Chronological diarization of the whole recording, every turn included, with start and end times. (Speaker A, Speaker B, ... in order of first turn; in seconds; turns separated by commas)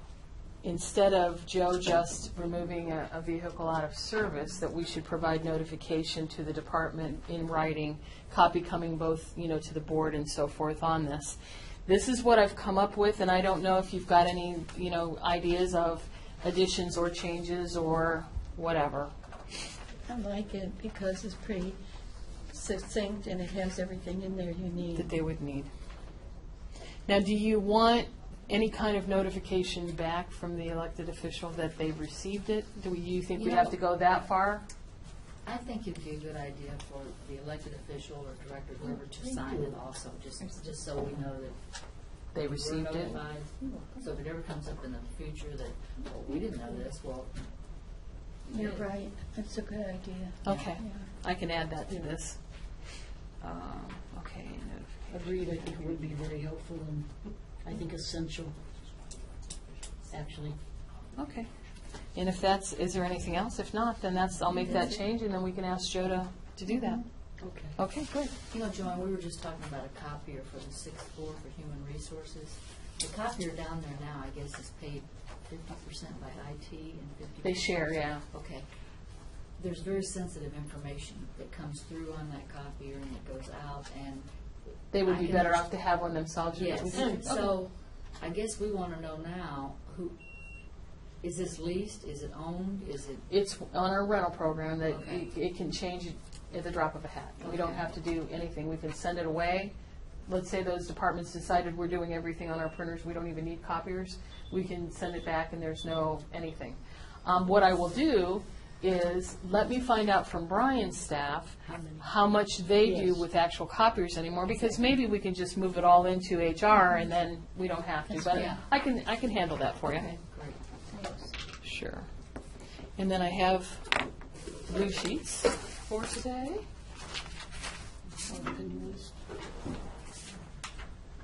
Speaker A: 0.6-19.1, Speaker B: 20.1-21.8, Speaker B: 22.5-25.1, Speaker A: 24.9-25.7, Speaker A: 27.1-34.6, Speaker C: 33.4-33.7, Speaker C: 35.4-47.5, Speaker D: 39.3-39.7, Speaker A: 42.3-43.2, Speaker B: 43.6-44.0, Speaker C: 48.5-48.9, Speaker B: 48.5-51.1, Speaker A: 50.4-55.1, Speaker C: 50.5-50.8, Speaker D: 55.1-58.5, Speaker D: 60.1-60.6, Speaker A: 61.2-61.5, Speaker A: 62.1-67.0, Speaker B: 66.7-67.0, Speaker D: 67.4-67.8, Speaker A: 67.8-68.4, Speaker C: 68.5-85.6, Speaker A: 77.4-78.2, Speaker A: 84.9-87.5, Speaker C: 86.5-90.2, Speaker D: 86.9-87.5, Speaker C: 91.2-93.2, Speaker A: 93.3-99.7, Speaker C: 94.8-95.3, Speaker C: 97.4-97.9, Speaker A: 100.3-120.1, Speaker D: 111.6-112.1, Speaker D: 112.8-113.3, Speaker C: 114.5-114.8, Speaker B: 118.1-118.5, Speaker C: 118.3-118.6, Speaker C: 119.9-120.6, Speaker A: 121.6-122.1, Speaker A: 123.0-124.0, Speaker A: 124.7-126.6, Speaker D: 128.2-129.2